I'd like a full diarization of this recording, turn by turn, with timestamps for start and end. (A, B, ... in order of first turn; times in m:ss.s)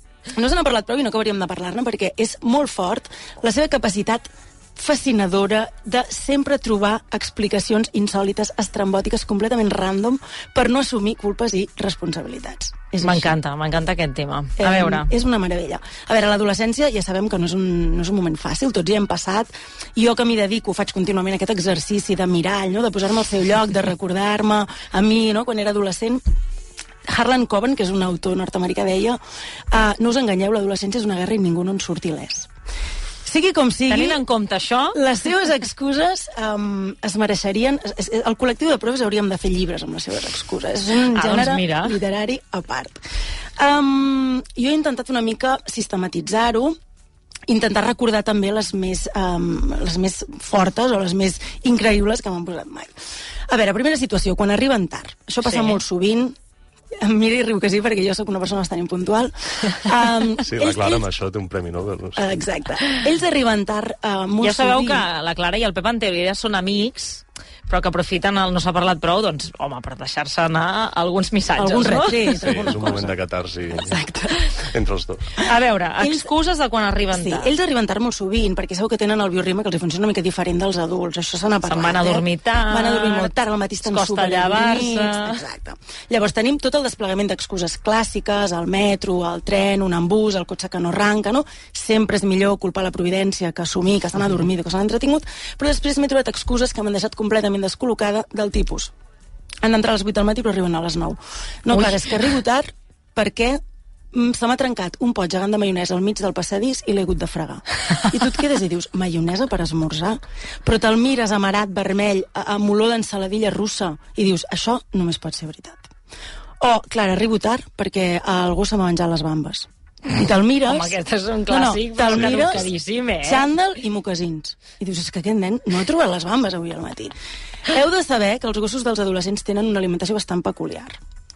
0:00.3-0:13.4 A
0:13.0-0:15.1 B
0:14.6-0:26.2 A
0:27.1-0:32.5 A
0:33.2-0:34.2 A
0:33.9-0:35.0 B
0:34.9-0:43.0 A
0:41.1-0:42.0 B
0:43.6-0:46.8 A
0:47.5-0:52.9 A
0:53.5-0:56.4 A
0:55.4-0:55.8 B
0:57.0-1:01.1 A
1:00.4-1:02.3 C
1:02.2-1:05.1 A
1:04.4-1:12.7 B
1:11.6-1:13.2 A
1:12.3-1:14.0 C
1:13.8-1:14.5 A
1:14.5-1:15.3 C
1:15.4-1:17.5 B
1:15.4-1:16.3 A
1:17.1-1:38.9 A
1:21.6-1:23.3 B
1:23.8-1:25.4 B
1:39.6-1:43.6 A
1:44.1-1:55.9 A
1:56.6-2:01.0 A
2:00.7-2:03.5 B
2:01.5-2:02.7 A
2:02.1-2:02.7 C
2:03.2-2:07.1 A
2:07.7-2:11.0 A